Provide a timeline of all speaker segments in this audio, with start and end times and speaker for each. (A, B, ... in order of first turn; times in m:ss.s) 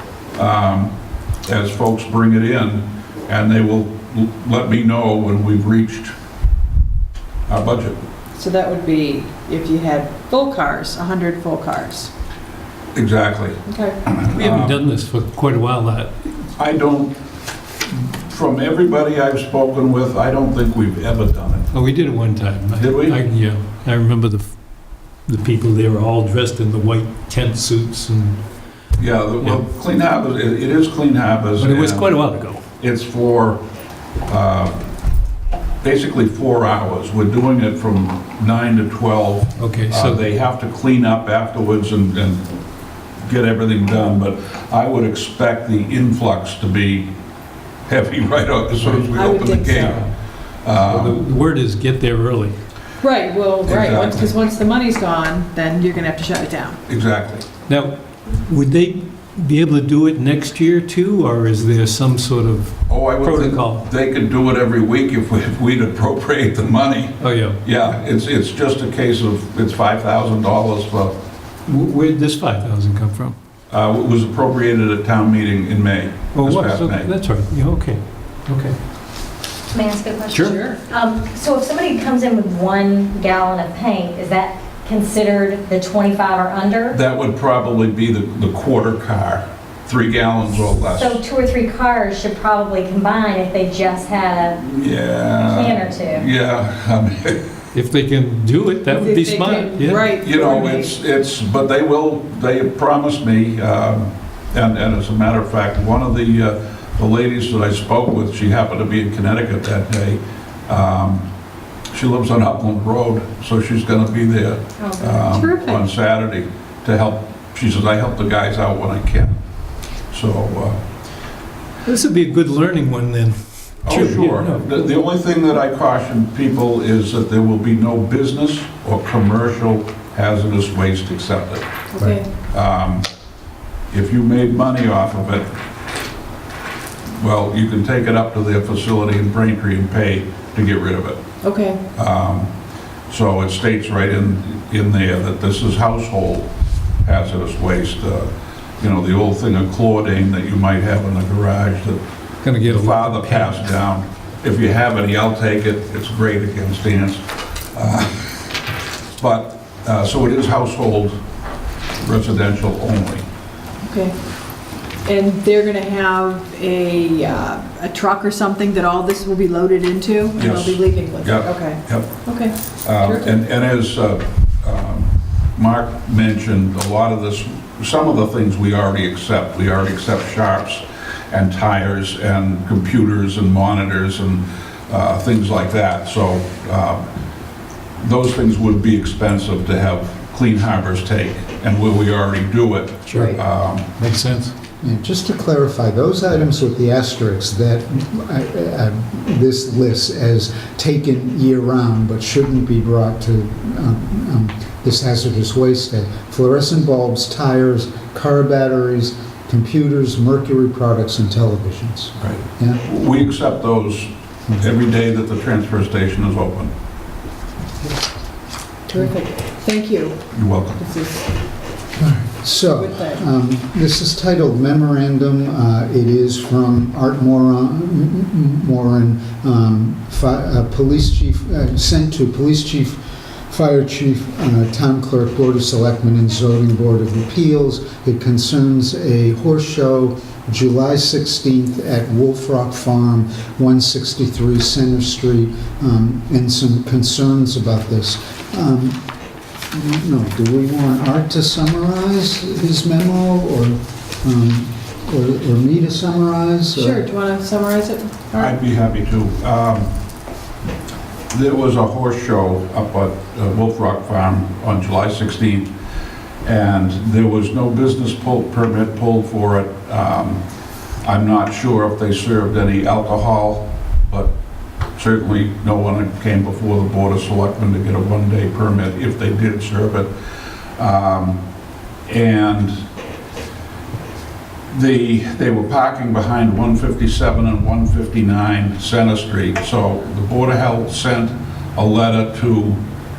0:00.3-0:00.9 A
0:01.4-0:06.1 A
0:07.5-0:08.0 A
0:08.3-0:12.1 B
0:12.9-0:14.8 A
0:13.6-0:14.0 B
0:14.2-0:16.1 C
0:16.6-0:17.1 A
0:17.9-0:21.7 A
0:21.7-0:24.6 C
0:22.8-0:23.2 A
0:25.2-0:28.4 C
0:29.0-0:32.2 A
0:31.6-0:32.6 C
0:32.8-0:33.6 A
0:34.3-0:34.7 A
0:35.8-0:42.4 A
0:39.6-0:40.2 C
0:43.2-0:47.1 A
0:47.9-0:50.0 A
0:48.8-0:50.0 C
0:49.1-0:50.0 B
0:50.6-0:51.2 A
0:50.7-0:52.6 C
0:53.0-0:56.8 B
0:53.6-0:54.3 A
0:56.9-0:57.4 A
0:57.7-1:03.8 C
1:02.9-1:11.1 A
1:07.2-1:07.6 C
1:11.7-1:13.4 C
1:13.7-1:17.1 A
1:16.3-1:18.8 C
1:19.7-1:27.0 D
1:20.3-1:20.6 C
1:20.5-1:20.8 B
1:26.9-1:31.2 A
1:30.9-1:34.6 D
1:34.6-1:37.4 A
1:35.5-1:36.3 D
1:37.7-1:40.1 C
1:38.9-1:41.0 B
1:40.2-1:51.3 A
1:51.9-1:59.4 A
1:54.8-1:55.2 D
1:55.3-1:55.8 B
2:00.1-2:00.8 A
2:01.8-2:04.9 C
2:03.8-2:11.6 A
2:11.9-2:12.3 B
2:12.5-2:13.0 A
2:13.9-2:15.5 A
2:17.2-2:21.2 A
2:21.4-2:21.8 B
2:21.9-2:22.5 A
2:23.1-2:26.5 A
2:27.0-2:32.0 A
2:32.4-2:33.6 C
2:32.6-2:38.5 A
2:39.2-2:41.1 A
2:42.0-2:43.2 A
2:43.8-2:44.1 B
2:45.0-2:53.3 B
2:50.4-2:52.2 A
2:52.8-3:07.0 A
3:08.0-3:13.9 A
3:13.0-3:13.4 C
3:14.0-3:14.5 C
3:14.8-3:32.8 E
3:32.2-3:36.7 A
3:38.9-3:40.2 B
3:40.3-3:40.8 A
3:40.8-3:41.2 B
3:42.0-4:09.0 E
3:42.7-3:43.2 B
4:09.7-4:17.0 E
4:16.7-4:18.6 B
4:18.4-4:19.9 A
4:21.3-4:25.7 A
4:26.4-4:30.4 A
4:31.0-4:34.3 A
4:35.0-4:40.1 A
4:40.8-4:41.4 A
4:42.1-4:42.7 A
4:44.7-4:52.8 A